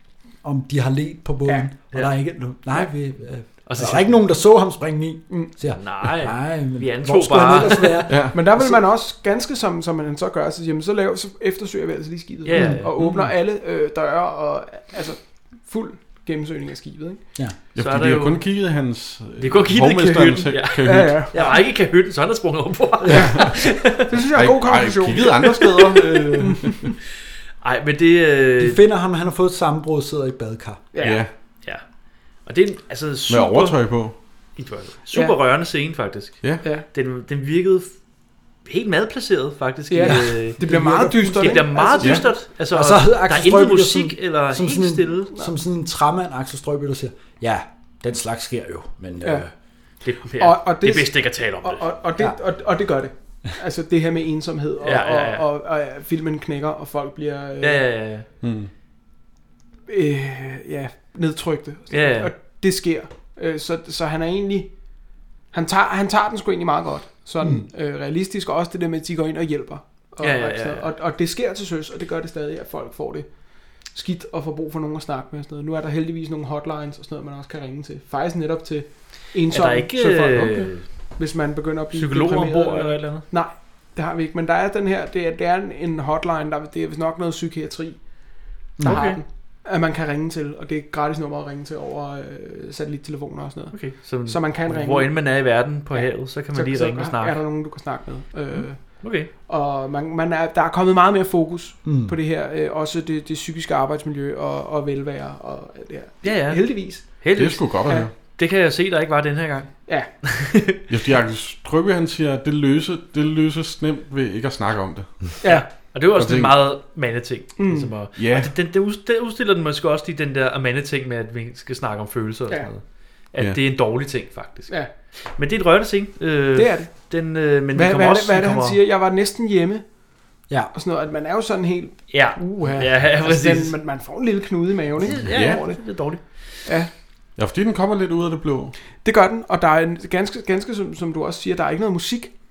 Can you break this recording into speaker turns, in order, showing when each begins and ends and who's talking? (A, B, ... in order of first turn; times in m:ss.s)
0:00.4-0:08.8 A
0:03.7-0:04.2 B
0:05.8-0:08.1 B
0:08.1-0:08.4 C
0:08.3-0:17.2 D
0:12.4-0:12.9 B
0:12.5-0:13.1 A
0:17.8-0:21.2 C
0:17.8-0:18.4 B
0:19.4-0:24.1 B
0:20.8-0:21.6 D
0:21.3-0:21.6 A
0:23.0-0:23.3 A
0:23.1-0:25.6 D
0:24.3-0:26.9 C
0:26.4-0:26.8 D
0:27.6-0:28.8 B
0:28.6-0:30.8 A
0:30.9-0:31.2 D
0:31.0-0:31.3 C
0:32.4-0:33.8 B
0:33.3-0:34.2 C
0:34.6-0:38.0 B
0:38.6-0:45.3 B
0:39.9-0:42.4 D
0:40.0-0:42.0 A
0:42.7-0:49.5 A
0:50.0-0:51.8 B
0:50.4-0:57.8 D
0:54.8-0:55.4 B
0:57.6-0:58.3 B
0:58.4-0:58.7 C
0:59.9-1:04.7 D
1:01.9-1:02.3 B
1:05.5-1:13.3 D
1:10.2-1:10.9 B
1:13.8-1:28.0 D
1:19.5-1:20.9 B
1:21.9-1:23.2 B
1:28.8-1:29.1 A
1:28.8-1:35.2 D
1:28.8-1:29.2 B
1:33.7-1:37.4 B
1:35.9-1:47.2 D
1:39.0-1:39.3 B
1:41.8-1:42.2 A
1:46.2-1:50.8 B
1:47.3-1:48.1 C
1:50.9-1:55.3 C
1:55.4-1:55.7 D
1:55.4-2:04.8 B
1:56.2-1:56.6 C
1:57.6-1:57.9 D
1:58.2-1:58.5 C
2:05.4-2:08.8 B
2:06.6-2:06.9 D
2:07.7-2:09.8 D
2:10.7-2:15.8 D
2:12.1-2:13.8 B
2:15.0-2:16.2 B
2:15.3-2:15.6 C
2:17.4-2:18.8 C
2:19.0-2:22.3 D